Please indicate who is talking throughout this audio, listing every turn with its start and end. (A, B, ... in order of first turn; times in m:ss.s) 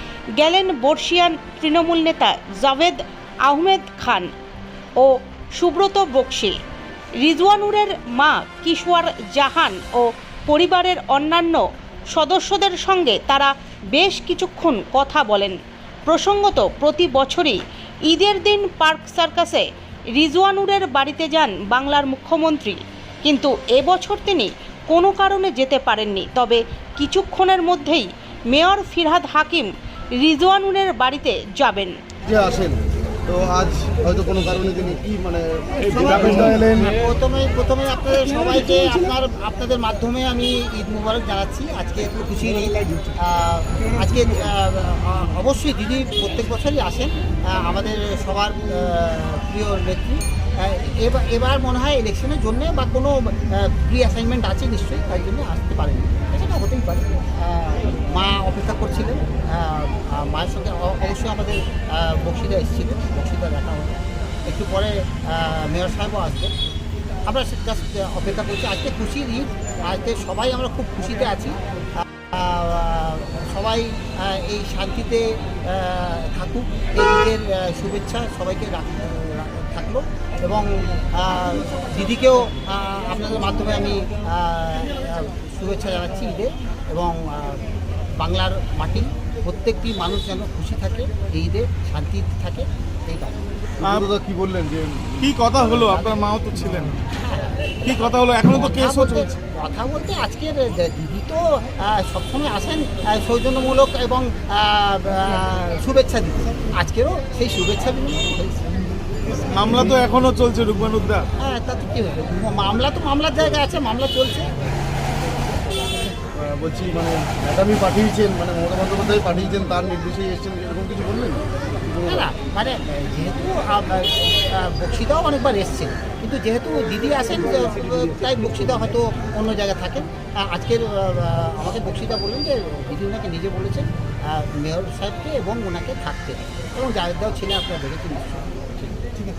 0:00.4-0:04.3 A
0:05.0-0:06.6 A
0:07.2-0:19.6 A
0:20.2-0:32.0 A
0:32.2-0:36.9 B
0:35.8-1:06.5 C
1:07.3-1:27.6 C
1:28.2-1:33.4 C
1:33.8-1:34.1 D
1:33.8-1:35.2 B
1:35.2-1:37.0 D
1:37.1-1:48.7 C
1:37.8-1:39.3 D
1:49.4-1:51.3 D
1:51.4-1:54.5 C
1:56.4-2:02.2 B
2:02.0-2:18.7 C